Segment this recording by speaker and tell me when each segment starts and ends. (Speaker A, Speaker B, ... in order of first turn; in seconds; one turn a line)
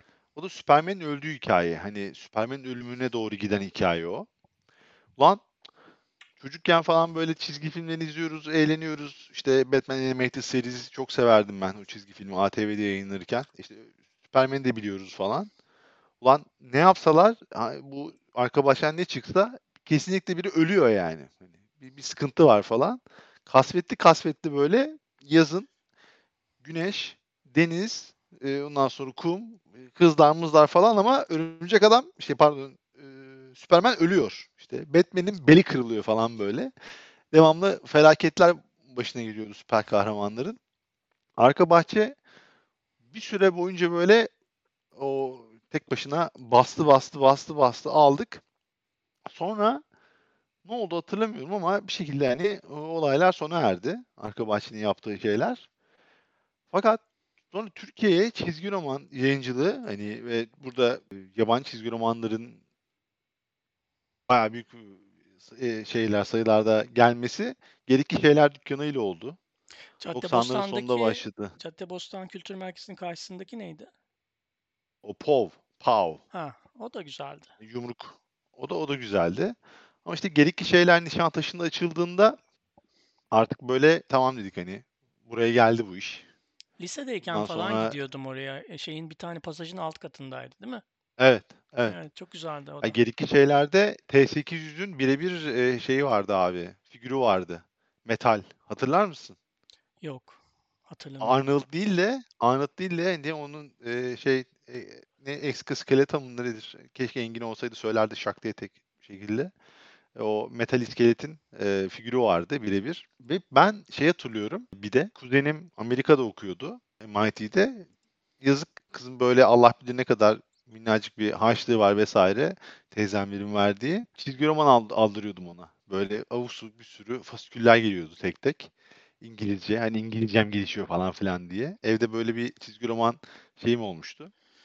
Speaker A: 0.4-4.3
Speaker A: 5.2-5.4
Speaker A: 6.4-15.5
Speaker A: 16.2-25.7
Speaker A: 26.6-36.7
Speaker A: 37.3-40.6
Speaker A: 41.4-42.2
Speaker A: 43.1-44.3
Speaker A: 45.0-48.4
Speaker A: 49.3-49.8
Speaker A: 50.6-55.7
Speaker A: 56.7-62.6
Speaker A: 64.3-69.4
Speaker B: 70.0-73.9
Speaker A: 70.1-71.5
Speaker A: 75.0-76.2
Speaker B: 76.3-77.5
Speaker A: 77.6-82.4
Speaker A: 83.3-86.3
Speaker B: 86.8-90.8
Speaker A: 87.3-88.0
Speaker A: 91.2-92.0
Speaker B: 91.8-93.0
Speaker A: 92.8-99.4
Speaker B: 100.0-101.5
Speaker A: 101.2-109.5
Speaker A: 110.2-117.9
Speaker A: 118.4-134.3